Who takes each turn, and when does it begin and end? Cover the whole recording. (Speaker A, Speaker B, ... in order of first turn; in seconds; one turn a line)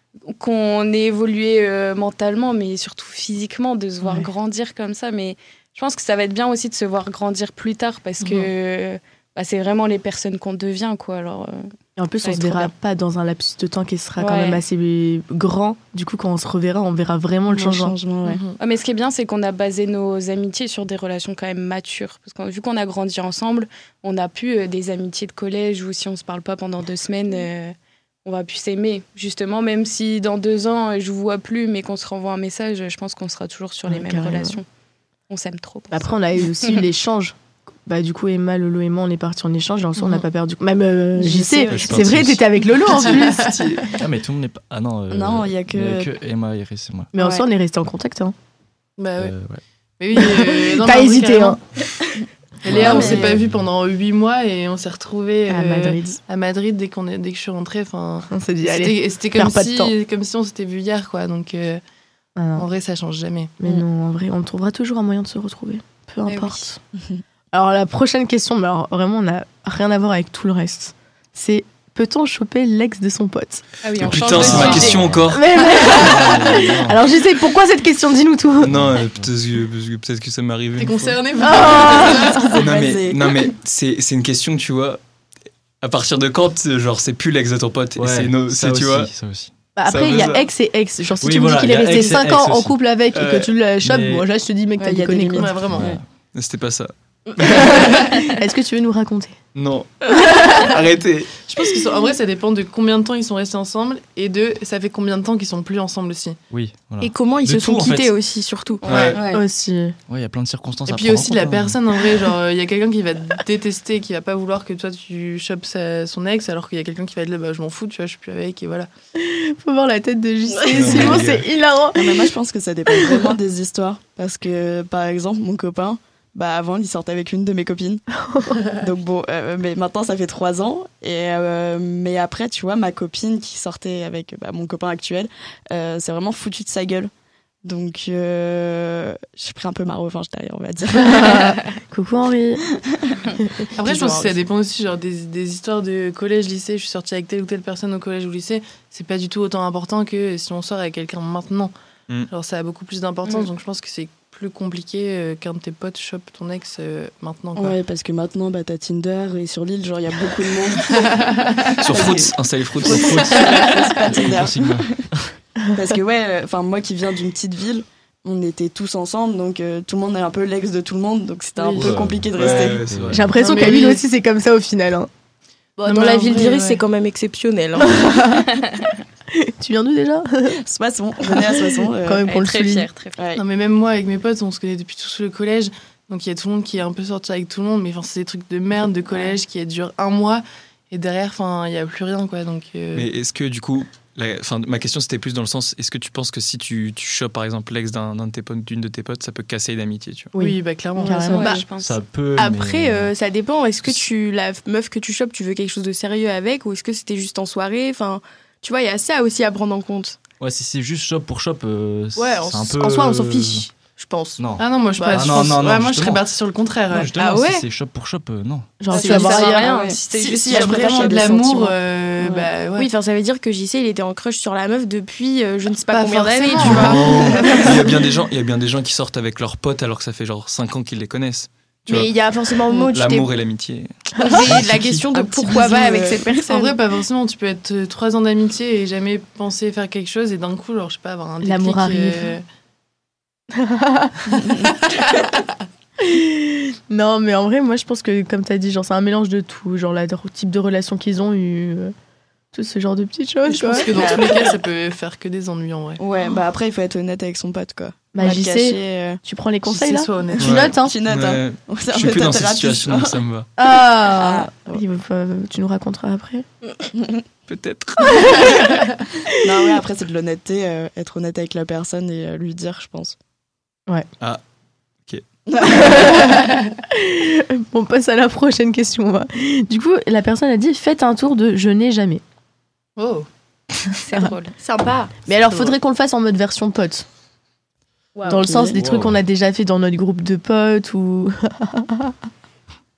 Speaker A: 0.3-11.7
Speaker B: 8.2-8.5
Speaker C: 12.0-17.9
Speaker A: 12.2-12.7
Speaker D: 14.3-14.6
Speaker E: 17.5-18.4
Speaker B: 18.2-18.6
Speaker A: 18.6-34.6
Speaker C: 33.9-34.6
Speaker A: 35.3-36.8
Speaker C: 35.9-43.7
Speaker E: 41.2-42.2
Speaker F: 41.7-42.4
Speaker B: 42.9-43.9
Speaker G: 43.9-47.1
Speaker E: 45.1-46.1
Speaker C: 47.1-48.3
Speaker E: 47.2-47.5
Speaker B: 49.0-49.3
Speaker G: 49.2-49.6
Speaker B: 50.0-51.6
Speaker C: 50.1-51.6
Speaker B: 52.6-61.8
Speaker G: 52.6-53.6
Speaker C: 52.8-53.4
Speaker E: 52.9-53.2
Speaker C: 55.5-56.2
Speaker C: 58.3-59.9
Speaker C: 62.4-62.6
Speaker B: 62.6-63.6
Speaker C: 63.6-66.8
Speaker A: 66.2-66.6
Speaker C: 67.5-73.6
Speaker A: 73.8-75.1
Speaker G: 74.0-77.1
Speaker F: 74.0-75.7
Speaker C: 74.5-78.7
Speaker F: 78.6-81.2
Speaker G: 78.7-79.3
Speaker B: 80.8-82.6
Speaker C: 81.4-82.5
Speaker E: 81.6-83.4
Speaker F: 82.5-85.0
Speaker F: 85.8-89.1
Speaker G: 88.0-89.5
Speaker C: 89.8-95.5
Speaker F: 89.8-90.5
Speaker G: 91.2-92.8
Speaker F: 93.1-93.5
Speaker G: 93.8-94.2
Speaker E: 94.8-95.5
Speaker B: 95.3-95.9
Speaker G: 95.7-96.0
Speaker F: 96.3-97.9
Speaker C: 97.5-99.3
Speaker F: 99.5-101.4
Speaker B: 101.5-106.4
Speaker G: 106.5-108.1
Speaker D: 107.0-109.4
Speaker A: 108.8-109.2
Speaker F: 108.9-109.2
Speaker E: 109.1-109.4
Speaker C: 109.3-110.0
Speaker G: 110.1-112.0
Speaker B: 110.9-118.9
Speaker C: 119.2-122.3
Speaker F: 120.7-121.5
Speaker E: 120.8-121.2
Speaker E: 121.9-128.0
Speaker C: 122.9-123.3
Speaker C: 128.2-128.6
Speaker E: 128.7-137.1
Speaker E: 137.6-141.6
Speaker C: 141.1-142.6
Speaker E: 142.7-143.3
Speaker C: 143.3-143.7
Speaker B: 143.8-151.7
Speaker B: 152.2-157.8
Speaker E: 157.6-161.1
Speaker B: 160.9-161.8
Speaker F: 161.8-163.5
Speaker E: 161.9-164.9
Speaker G: 162.8-165.3
Speaker E: 165.7-172.8
Speaker B: 171.6-172.0
Speaker G: 171.8-173.3
Speaker F: 172.3-173.3
Speaker C: 173.1-175.1
Speaker B: 173.3-174.0
Speaker D: 175.8-178.2
Speaker B: 175.8-176.8
Speaker C: 177.8-178.5
Speaker C: 179.3-180.6
Speaker E: 180.5-182.2
Speaker C: 181.3-182.9
Speaker A: 182.2-183.2
Speaker E: 183.2-183.4
Speaker B: 183.4-193.1
Speaker F: 192.9-200.3
Speaker C: 200.3-201.6
Speaker B: 200.3-201.5
Speaker E: 201.0-201.6
Speaker A: 201.2-202.0
Speaker G: 201.8-203.1
Speaker D: 202.3-210.2
Speaker G: 210.4-213.7
Speaker D: 212.3-213.5
Speaker G: 214.4-216.3
Speaker B: 214.5-217.1
Speaker C: 215.0-215.5
Speaker G: 216.9-218.7
Speaker D: 217.1-217.7
Speaker C: 218.8-219.7
Speaker A: 218.9-221.3
Speaker B: 218.9-222.9
Speaker E: 219.6-222.5
Speaker D: 222.8-227.8
Speaker B: 225.9-227.6
Speaker G: 226.6-227.0
Speaker F: 226.6-232.1
Speaker D: 231.8-233.3
Speaker F: 232.9-233.9
Speaker D: 234.2-236.7
Speaker G: 234.3-235.1
Speaker E: 235.1-236.3
Speaker B: 236.4-242.4
Speaker C: 241.4-242.3
Speaker C: 243.5-244.2
Speaker E: 244.5-244.7
Speaker B: 244.6-245.4
Speaker C: 246.0-251.9
Speaker C: 252.5-253.9
Speaker B: 253.4-256.0
Speaker E: 253.9-254.5
Speaker E: 256.0-259.2
Speaker C: 258.1-260.9
Speaker B: 259.6-260.7
Speaker F: 260.4-263.5
Speaker E: 260.5-264.8
Speaker C: 263.6-266.4
Speaker E: 266.9-267.2
Speaker F: 267.5-268.6
Speaker C: 268.1-268.5
Speaker C: 269.2-269.6
Speaker E: 269.4-273.1
Speaker E: 275.5-276.4
Speaker C: 275.6-282.2
Speaker B: 283.0-283.3
Speaker A: 284.0-284.5
Speaker D: 284.6-285.1
Speaker C: 285.3-287.1
Speaker C: 288.3-292.1
Speaker E: 288.3-288.8
Speaker G: 288.7-289.2